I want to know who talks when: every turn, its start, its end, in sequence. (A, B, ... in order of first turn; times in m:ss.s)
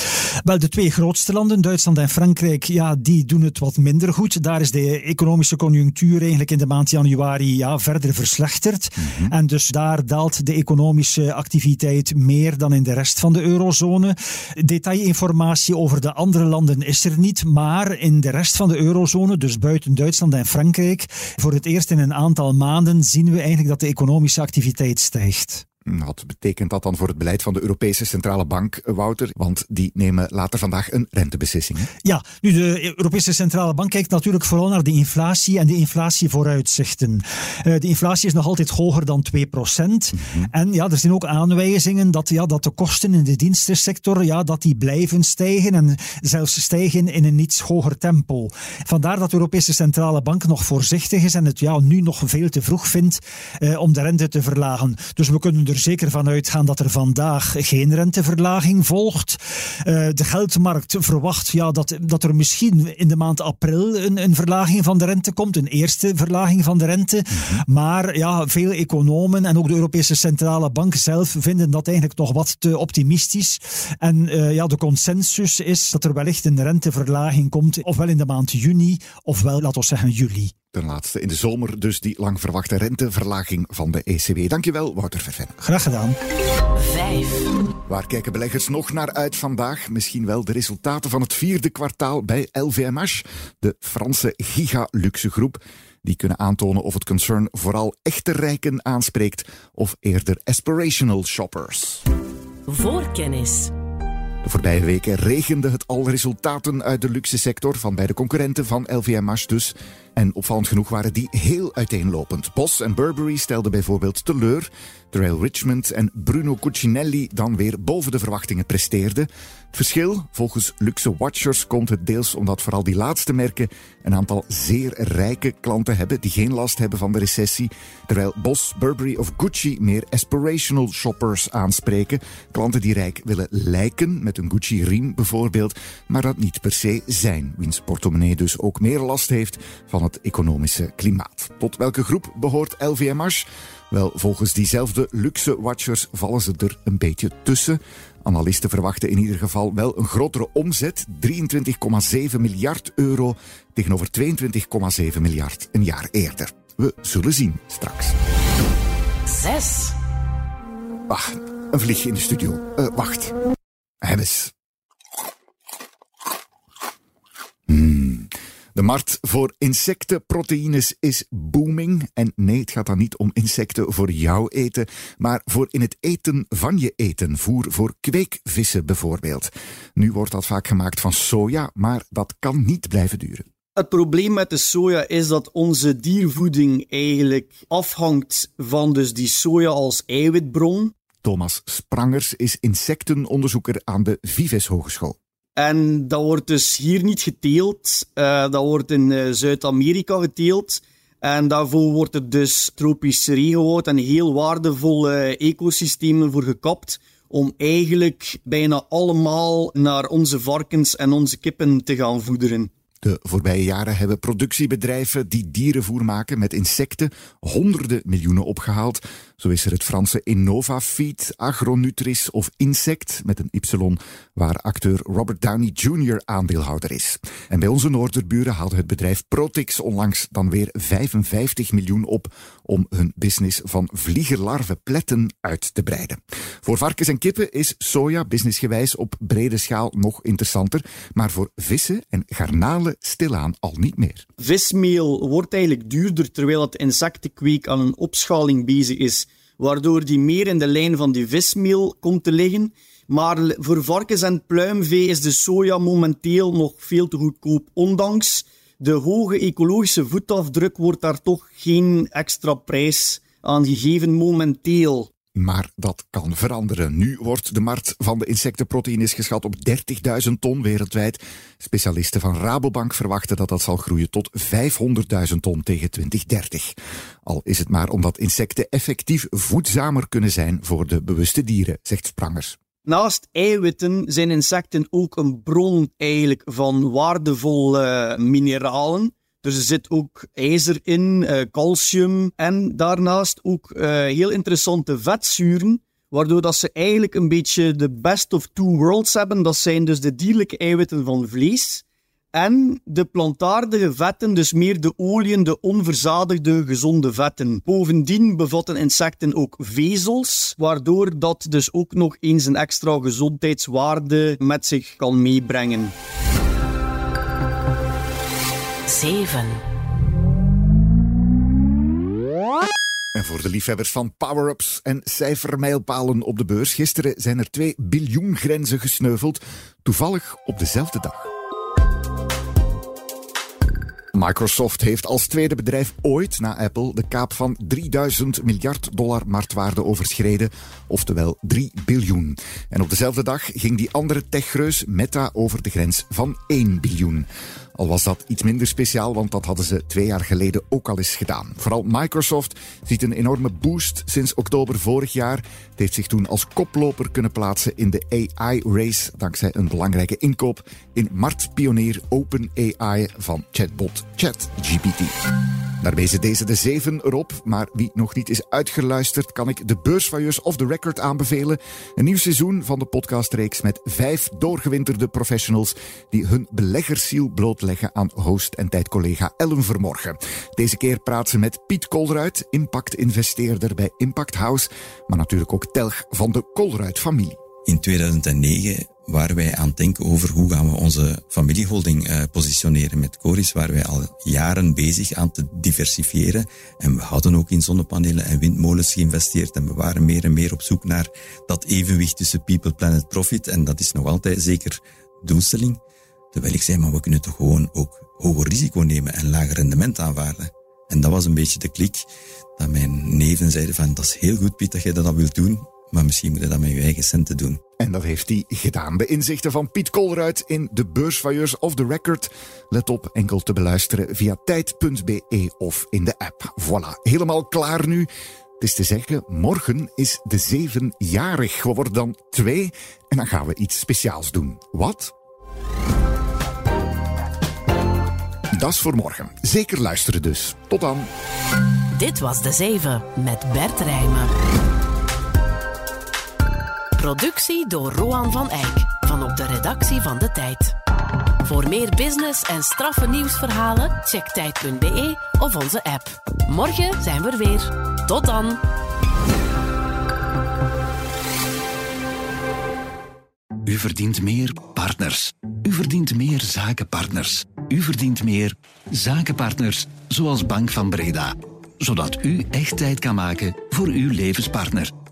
0:00.4-0:25.6 A
0:09.0-0:09.3 B
0:25.8-0:31.9 B
0:32.0-1:20.5 A
1:07.3-1:07.6 B
1:20.7-1:25.6 B
1:25.6-1:26.2 A
1:26.8-1:27.6 C
1:27.8-1:42.0 B
1:42.7-1:43.7 C
1:44.4-2:38.1 B
2:39.3-2:40.0 C
2:41.1-2:43.3 B
2:44.0-2:44.5 B
2:47.7-3:03.4 B
3:03.8-3:10.9 D
3:11.2-3:15.2 B
3:15.6-3:32.7 D
3:33.0-4:04.2 B
4:04.4-4:25.1 D
4:25.3-4:42.6 B
4:42.8-5:15.9 D
5:18.9-5:19.6 C
5:23.2-5:31.3 B
5:34.1-6:05.1 B
6:05.8-6:27.4 B
6:27.6-6:45.8 E
6:46.3-6:57.6 E
6:57.8-7:08.1 B
7:08.6-7:15.1 B
7:18.6-7:21.1 B
7:21.9-7:24.3 C
7:27.0-7:30.8 C
7:31.4-7:38.6 C
7:43.6-7:54.9 F